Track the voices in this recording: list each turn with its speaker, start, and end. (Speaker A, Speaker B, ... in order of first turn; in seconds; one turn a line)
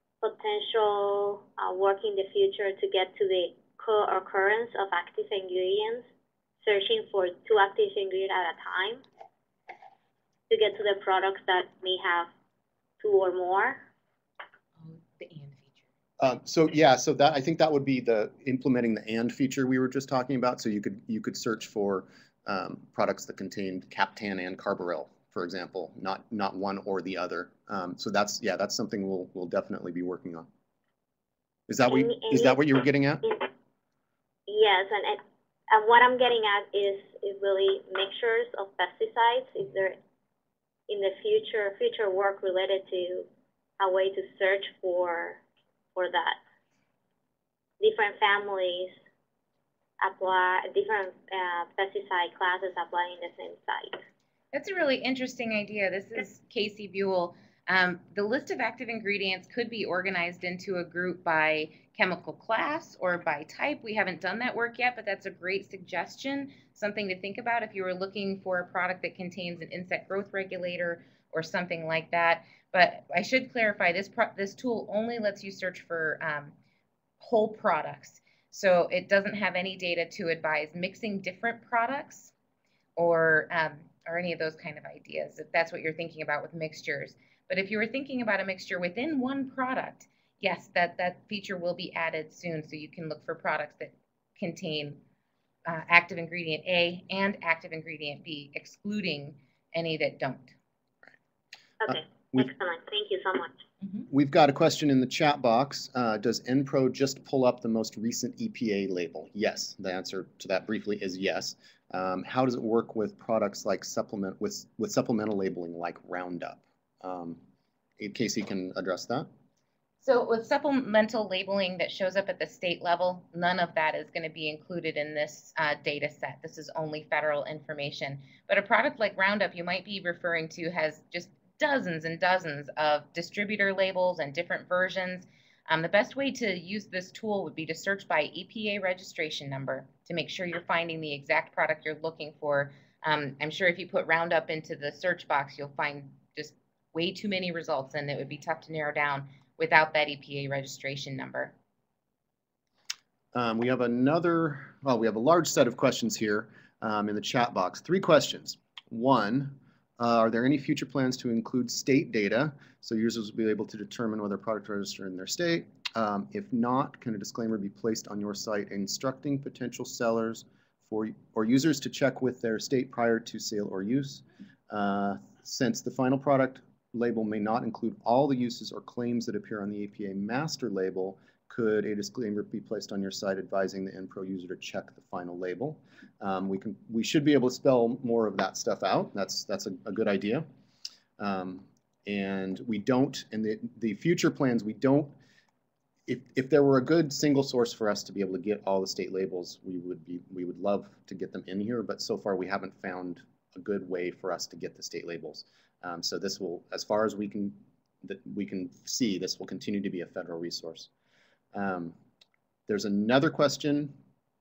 Speaker A: 0.2-6.0
Speaker A: 6.6-9.0
Speaker A: 10.5-12.3
Speaker A: 13.0-13.8
Speaker B: 14.8-15.8
Speaker C: 16.2-30.5
Speaker C: 31.7-33.2
Speaker A: 31.9-32.7
Speaker A: 33.2-33.5
Speaker A: 34.5-40.0
Speaker A: 40.9-45.4
Speaker A: 45.9-46.4
Speaker A: 47.8-49.0
Speaker A: 50.0-54.0
Speaker B: 54.5-76.5
Speaker B: 77.2-82.3
Speaker B: 83.0-95.0
Speaker B: 95.7-100.5
Speaker A: 101.8-103.6
Speaker C: 101.9-102.5
Speaker C: 104.1-117.4
Speaker C: 118.0-119.3
Speaker B: 120.0-151.5
Speaker C: 153.3-190.4
Speaker C: 191.2-195.1
Speaker C: 196.1-210.9
Speaker C: 211.5-211.9
Speaker C: 212.7-213.9